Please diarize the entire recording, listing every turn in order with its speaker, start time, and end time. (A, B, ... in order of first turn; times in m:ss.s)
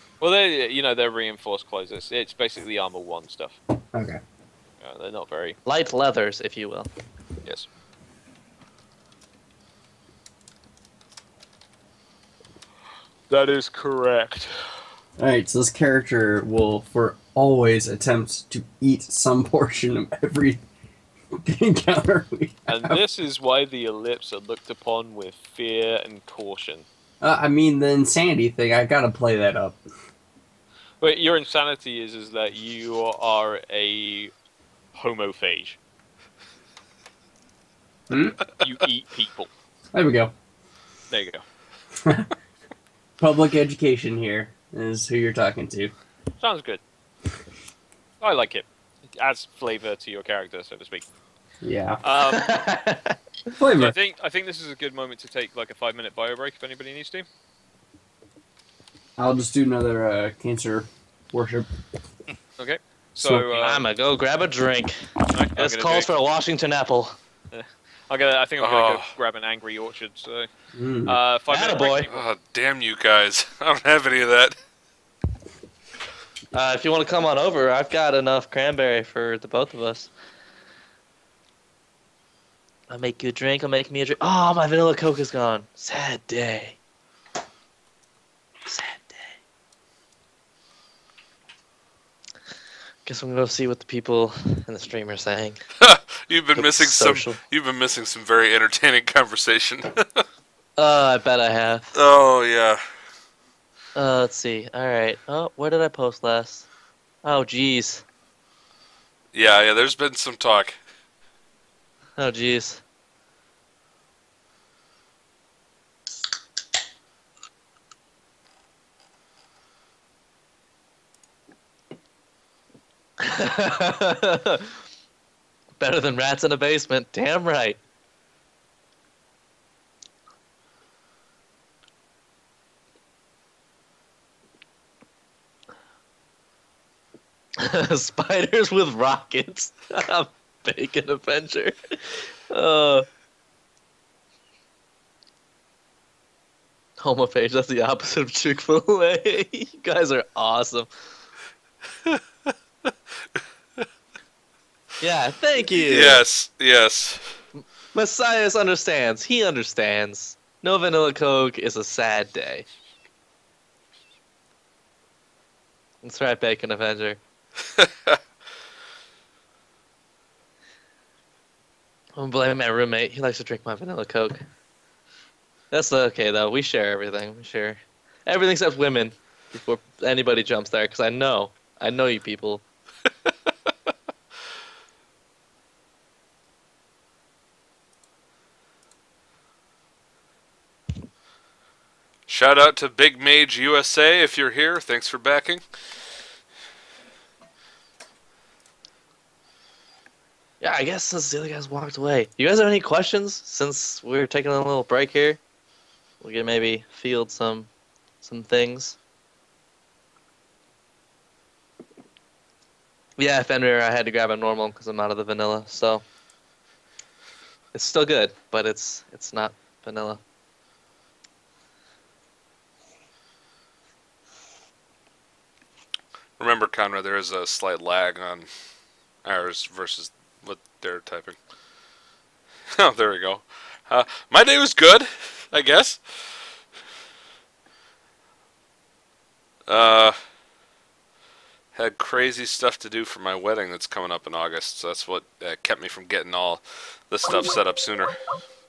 0:00.2-0:03.6 A
0:03.9-0:04.2 B
0:04.8-0:05.6 A
0:05.6-0:06.9 C
0:07.4-0:07.7 A
0:13.3-0:14.5 A
0:15.2-0:20.6 B
0:21.3-0:23.0 B
0:22.7-0:26.9 A
0:27.2-0:29.8 B
0:31.0-0:34.3 A
0:34.9-0:35.8 A
0:38.1-0:38.4 B
0:38.6-0:39.5 A
0:39.9-0:40.3 B
0:41.1-0:41.4 A
0:41.9-0:42.3 B
0:43.2-0:45.9 B
0:46.4-0:46.8 A
0:48.2-0:51.0 A
0:51.6-0:52.0 B
0:52.0-0:52.4 A
0:52.3-0:53.2 C
0:53.6-0:54.0 B
0:53.7-0:57.3 A
0:59.2-1:01.7 B
1:02.6-1:03.9 A
1:03.2-1:03.4 B
1:03.5-1:05.0 C
1:05.3-1:06.1 A
1:05.6-1:07.2 C
1:07.5-1:10.5 A
1:08.6-1:09.1 D
1:10.7-1:11.2 B
1:11.1-1:12.2 A
1:11.5-1:12.1 C
1:12.1-1:14.6 D
1:16.5-1:20.1 C
1:22.9-1:26.8 C
1:28.7-1:29.4 C
1:33.1-1:35.6 C
1:35.8-1:40.2 D
1:36.5-1:37.4 C
1:40.8-1:42.0 C
1:41.9-1:42.8 D
1:44.0-1:46.7 C
1:47.2-1:48.0 C
1:49.3-1:50.8 D
1:52.2-1:52.8 C
2:03.2-2:04.8 C
2:05.8-2:07.8 C
2:17.6-2:23.1 C
2:27.0-2:30.9 C
2:35.0-2:36.2 C
2:35.6-2:37.4 D
2:37.6-2:42.7 C
2:46.0-2:47.2 C
2:52.2-2:54.4 C
2:55.7-3:02.6 C
3:12.3-3:15.6 D
3:20.6-3:25.4 C
3:26.2-3:27.7 C
3:28.2-3:29.0 C
3:33.2-3:36.0 C
3:37.7-3:40.2 C
3:46.4-3:48.5 D
3:49.2-3:51.4 D
3:52.7-3:56.5 D
3:59.7-4:00.2 D
4:01.7-4:08.3 D